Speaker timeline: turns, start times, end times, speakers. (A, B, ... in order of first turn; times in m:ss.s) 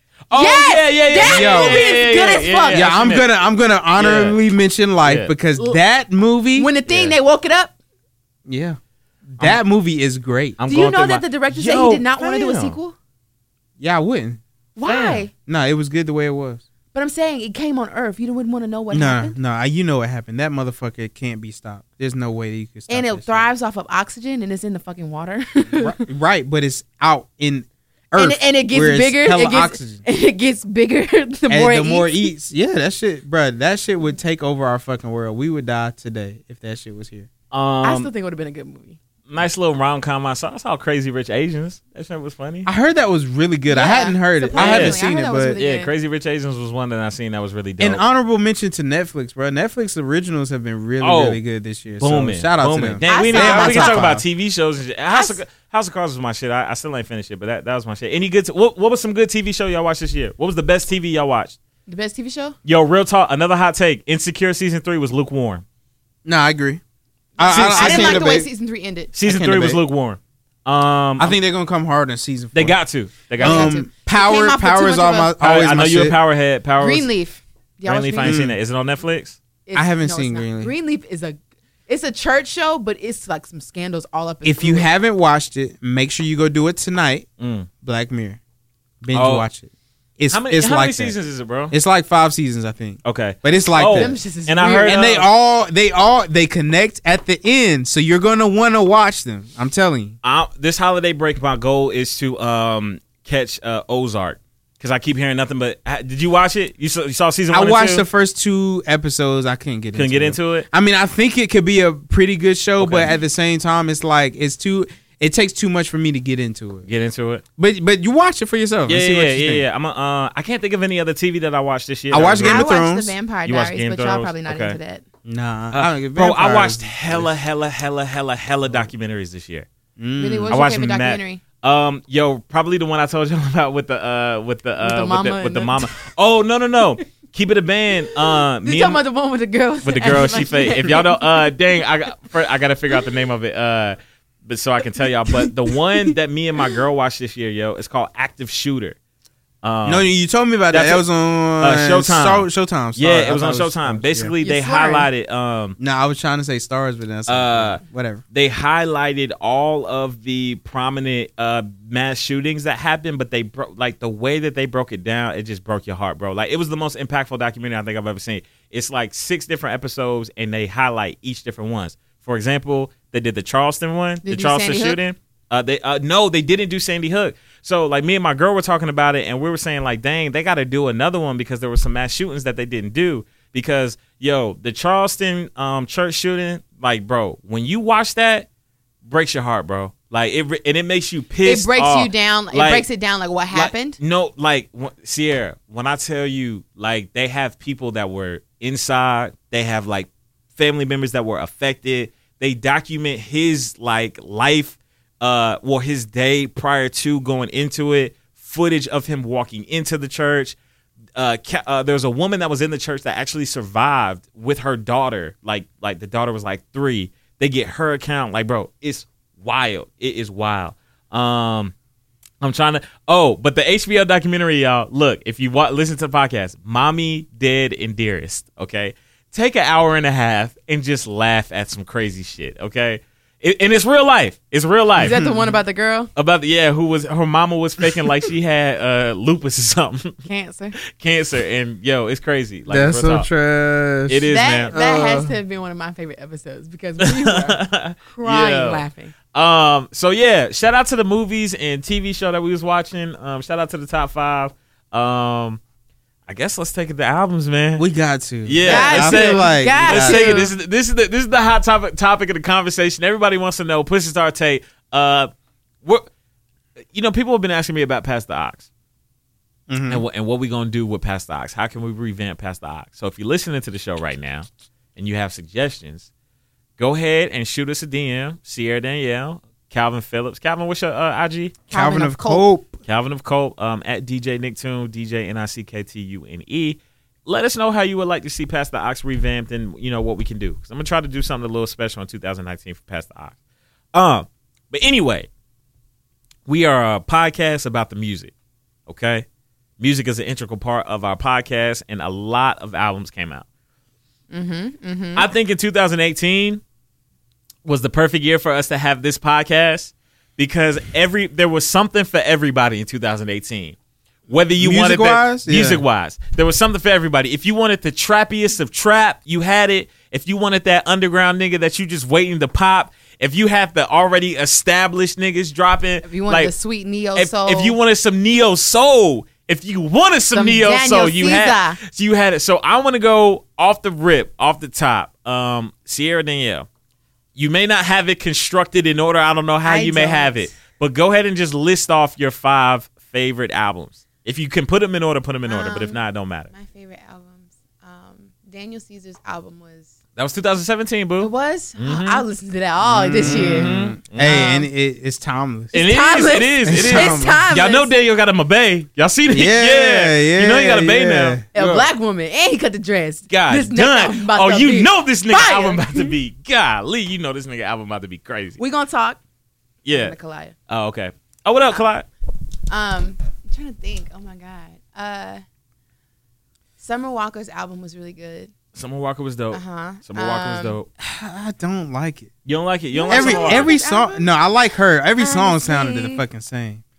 0:00.3-0:03.3 A
0:00.3-0:02.9 B
0:01.2-0:02.0 C
0:02.7-0:06.7 C
0:04.0-0:04.4 A
0:05.0-0:05.3 A
0:06.6-0:07.7 B
0:06.9-0:07.2 A
0:08.5-0:08.8 C
0:09.3-0:10.6 C
0:10.6-0:12.8 A
0:10.7-0:13.0 B
0:13.8-0:14.4 C
0:14.8-0:15.3 B
0:14.8-0:15.2 A
0:15.5-0:16.6 C
0:16.9-0:19.4 B
0:18.9-0:23.4 C
0:22.9-0:26.0 B
0:25.7-0:30.0 C
0:28.2-0:32.3 B
0:31.5-0:37.3 C
0:37.5-0:38.1 A
0:37.8-0:39.0 B
0:39.3-0:42.7 A
0:42.7-0:45.6 C
0:43.7-0:45.9 B
0:44.6-0:45.0 A
0:45.6-0:48.0 A
0:47.8-0:54.2 C
0:51.0-0:51.4 A
0:52.0-1:01.6 A
0:53.1-0:54.1 B
0:55.1-0:55.4 B
1:01.9-1:02.6 B
1:02.6-1:05.6 A
1:06.2-1:06.8 C
1:07.4-1:09.1 B
1:07.4-1:08.5 C
1:07.4-1:08.2 A
1:09.2-1:11.4 A
1:09.3-1:09.8 C
1:11.2-1:12.8 C
1:12.5-1:13.8 A
1:13.4-1:16.2 C
1:13.4-1:15.3 B
1:15.4-1:17.1 A
1:16.8-1:18.4 B
1:17.8-1:19.4 A
1:18.2-1:18.6 C
1:19.7-1:24.9 B
1:19.8-1:20.7 C
1:24.4-1:27.3 C
1:27.4-1:27.7 A
1:27.8-1:28.4 C
1:29.0-1:31.2 C
1:29.1-1:29.5 A
1:30.3-1:31.7 A
1:31.7-1:40.2 C
1:33.0-1:35.3 A
1:33.9-1:35.0 B
1:40.2-1:48.0 A
1:47.5-1:56.9 C
1:49.9-1:50.7 A
1:52.8-1:53.2 A
1:56.9-1:57.4 A
1:57.6-1:59.6 C
1:58.9-2:02.7 A
2:02.1-2:03.1 C
2:02.4-2:05.0 B
2:03.4-2:04.8 A
2:05.2-2:07.3 C
2:05.7-2:09.7 A
2:10.0-2:10.6 C
2:10.2-2:11.4 B
2:10.5-2:19.0 A
2:14.8-2:15.8 B
2:18.1-2:21.6 B
2:19.8-2:29.0 A
2:29.6-2:30.1 A
2:29.8-2:34.3 C
2:30.7-2:31.0 A
2:31.6-2:35.8 A
2:34.4-2:35.1 B
2:35.8-2:38.2 C
2:37.3-2:37.8 A
2:38.3-3:08.5 A
2:54.2-2:55.0 B
3:09.1-3:12.9 A
3:11.4-3:14.0 B
3:13.5-3:30.6 A
3:31.2-3:41.7 A
3:42.4-3:55.2 A
3:55.0-3:56.1 B
3:55.0-3:55.6 C
3:56.2-4:00.2 A
4:00.2-4:00.8 B
4:00.9-4:03.3 A
4:02.7-4:05.4 C
4:04.1-4:04.7 A
4:04.3-4:09.1 B
4:07.0-4:15.6 A
4:16.3-4:17.8 A
4:17.8-4:20.4 C
4:18.5-4:25.3 A
4:18.6-4:20.5 B
4:26.9-4:28.7 A
4:29.7-4:30.0 C
4:29.9-4:36.1 A
4:36.8-4:41.6 A
4:41.7-4:42.5 B
4:41.7-4:42.8 C
4:42.9-4:53.3 A
4:53.9-4:55.3 A
4:56.5-4:58.3 A
4:58.9-4:59.3 A
4:59.8-5:03.4 A
5:04.3-5:05.3 B
5:05.2-5:06.6 A
5:07.6-5:13.8 A
5:14.3-5:26.5 A
5:14.6-5:15.8 C
5:26.0-5:27.8 B
5:27.2-5:36.7 A
5:30.3-5:31.8 B
5:37.4-5:46.5 A
5:39.6-5:40.5 B
5:45.5-5:46.0 B
5:46.5-5:49.9 B
5:50.2-5:52.2 A
5:51.2-5:54.7 B
5:52.8-5:55.7 C
5:53.2-5:54.5 A
5:55.7-5:57.9 B
5:55.7-6:01.8 A
5:56.6-5:57.4 C
5:59.3-6:01.4 C
6:01.5-6:06.1 B
6:03.3-6:08.6 A
6:08.6-6:09.2 B
6:09.8-6:10.2 A
6:09.9-6:10.5 B
6:10.7-6:12.1 A
6:12.7-6:15.4 B
6:16.8-6:18.5 B
6:18.7-6:20.9 A
6:19.5-6:20.8 B
6:21.0-6:22.3 C
6:22.4-6:23.7 A
6:22.9-6:24.3 B
6:23.1-6:26.8 C
6:25.2-6:26.2 B